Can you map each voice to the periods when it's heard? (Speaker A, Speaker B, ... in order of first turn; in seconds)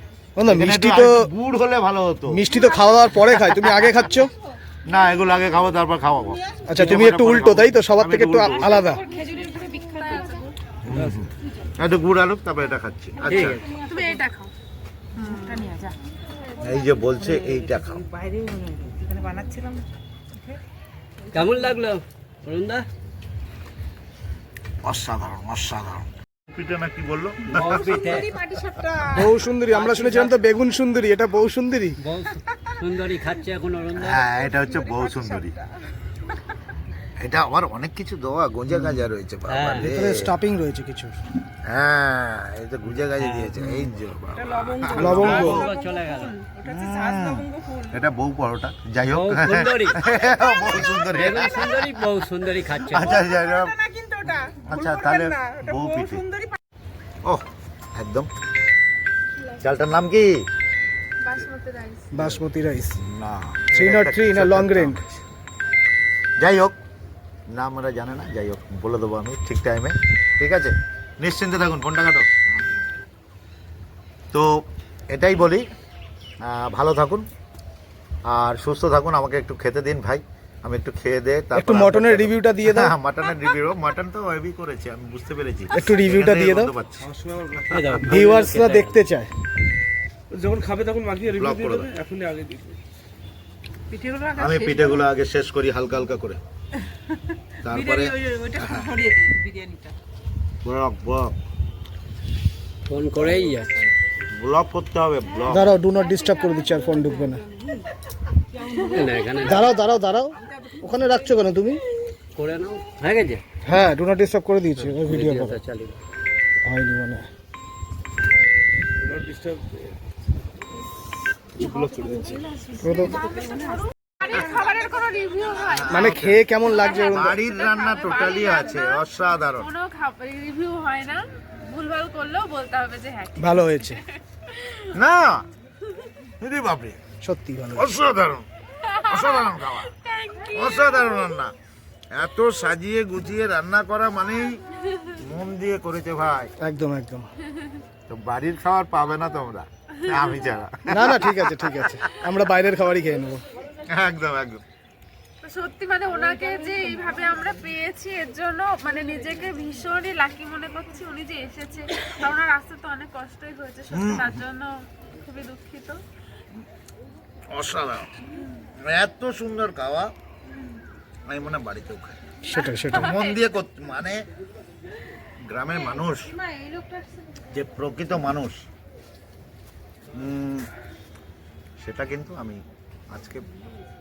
Speaker A: 0.4-1.3, 2.3-4.3, 6.7-9.0, 29.1-32.0, 39.8-41.2, 44.9-45.6, 62.1-63.0, 63.7-65.0, 81.5-82.9, 85.7-86.7, 88.0-89.3, 105.5-107.4, 109.4-111.8, 113.6-115.6, 116.6-117.3, 122.7-123.2, 125.9-127.4, 133.4-134.0, 137.2-137.9, 146.6-147.3, 150.9-153.4, 172.4-173.2
Speaker B: 0.5-2.4, 4.9-8.8, 10.8-13.7, 16.6-18.1, 24.8-28.1, 34.0-35.5, 37.2-40.3, 41.7-45.7, 46.6-51.9, 52.9-53.8, 54.5-56.3, 57.2-58.3, 59.6-60.4, 62.1-62.4, 63.0-65.2, 66.4-66.8, 67.5-72.3, 75.1-75.7, 76.4-77.3, 78.3-87.1, 91.3-92.0, 94.4-96.4, 97.6-98.9, 100.6-101.4, 104.3-105.8, 125.6-129.7, 134.9-135.4, 136.4-137.0, 137.8-138.5, 139.1-139.9, 140.5-141.5, 142.1-144.6, 145.2-146.5, 148.1-151.9, 153.9-154.6, 163.9-164.4, 167.5-168.1, 168.8-170.1, 171.3-172.2, 172.9-174.3, 175.5-176.3, 177.5-178.6, 180.1-180.7, 181.8-182.6, 183.1-183.4
Speaker C: 8.8-10.4, 15.2-16.0, 17.3-19.9, 27.8-29.0, 29.7-30.3, 44.4-47.9, 53.9-55.7, 93.9-95.0, 97.7-99.9, 107.0-107.8, 108.5-109.7, 110.5-110.8, 121.6-123.8
Speaker D: 9.6-10.6, 13.8-14.5, 15.2-15.7, 61.2-62.1, 124.2-134.0, 134.5-134.9, 140.0-140.9, 155.4-166.0, 172.6-173.3
Speaker E: 10.9-11.2, 21.3-22.9, 27.5-28.3, 32.0-34.2, 39.5-39.9, 43.2-43.6, 45.1-46.4, 49.1-50.0, 51.1-53.2, 87.7-89.0, 102.9-103.7, 108.8-109.7, 112.3-113.4, 114.8-116.0
Speaker F: 87.1-87.7, 90.3-92.8, 119.0-119.9, 121.7-122.0